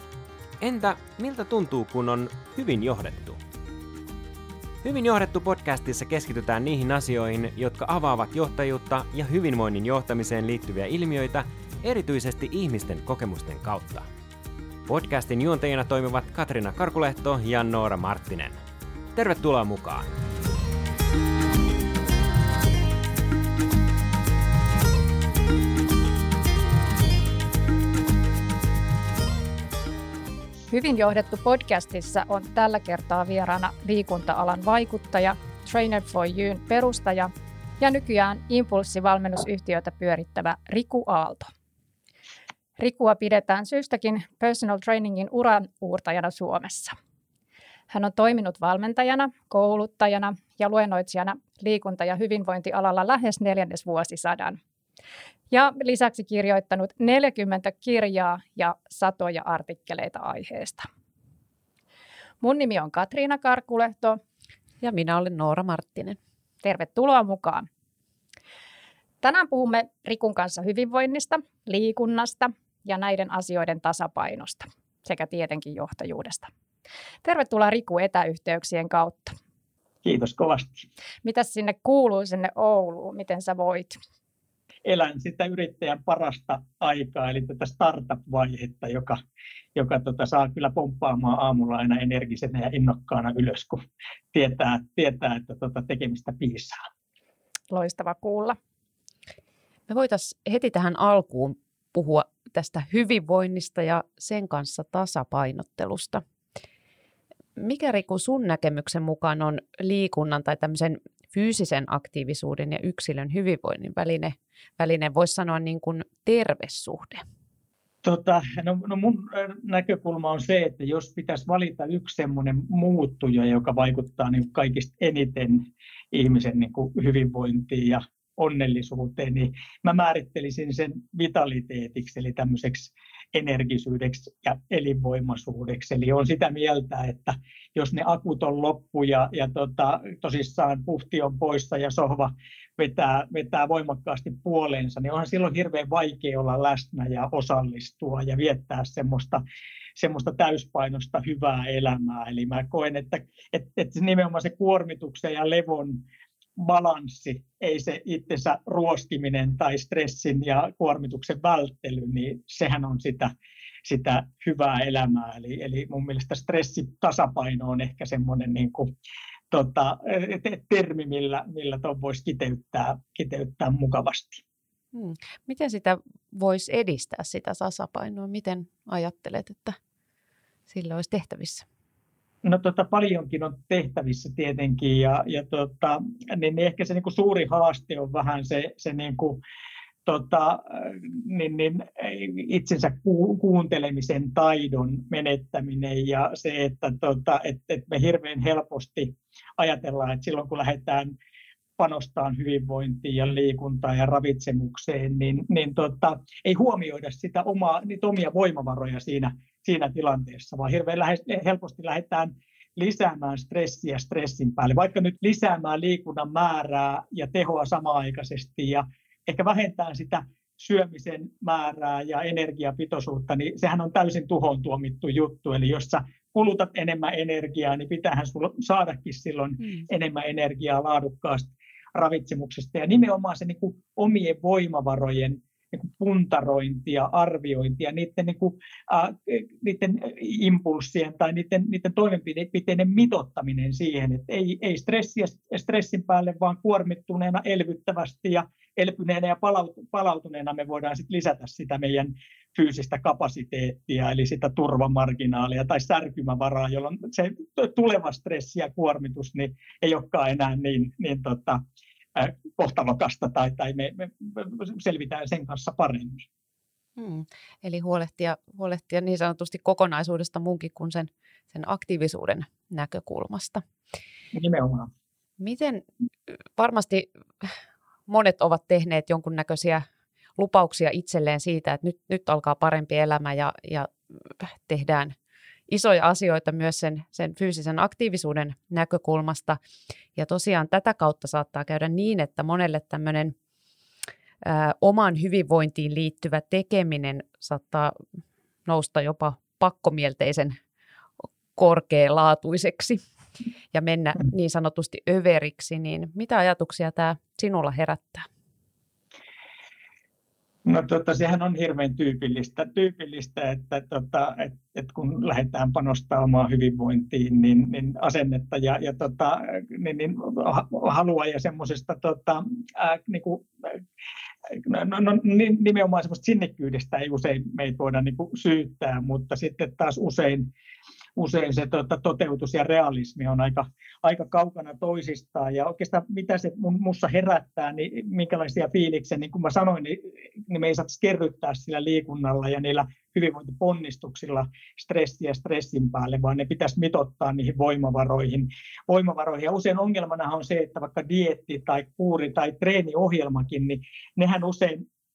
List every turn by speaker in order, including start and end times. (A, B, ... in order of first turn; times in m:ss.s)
0:00.6-0:03.4 A
0:04.8-0:14.1 A
0:14.9-0:18.6 A
0:19.2-0:20.1 A
0:30.7-0:41.5 B
0:42.8-0:47.0 B
0:47.9-0:54.6 B
0:55.5-1:00.8 B
1:02.4-1:04.2 B
1:04.8-1:06.2 C
1:06.6-1:07.7 B
1:09.2-1:16.5 B
1:17.2-1:19.4 B
1:20.0-1:20.8 D
1:21.2-1:24.0 B
1:24.8-1:29.2 D
1:29.7-1:36.8 D
1:37.7-1:38.6 B
1:39.9-1:46.2 C
1:47.6-1:57.2 C
1:58.0-2:29.4 D
2:30.0-2:36.0 D
2:36.6-2:43.3 D
2:43.8-2:48.9 D
2:49.5-2:54.4 D
2:54.9-2:59.8 C
3:00.7-3:01.7 C
3:02.4-3:09.4 D
3:10.0-3:21.1 D
3:21.8-4:21.6 D
4:22.2-4:26.3 D
4:27.0-4:33.6 C
4:34.3-4:34.9 D
4:35.4-4:35.9 C
4:36.6-4:37.5 C
4:38.1-4:39.8 C
4:40.4-4:45.2 C
4:45.7-4:49.6 C
4:50.2-4:53.4 C
4:54.4-4:58.0 C
4:58.6-5:00.6 C
5:01.2-5:03.0 C
5:03.7-5:08.3 C
5:10.7-5:23.8 D
5:24.5-5:30.5 D
5:31.2-5:54.8 D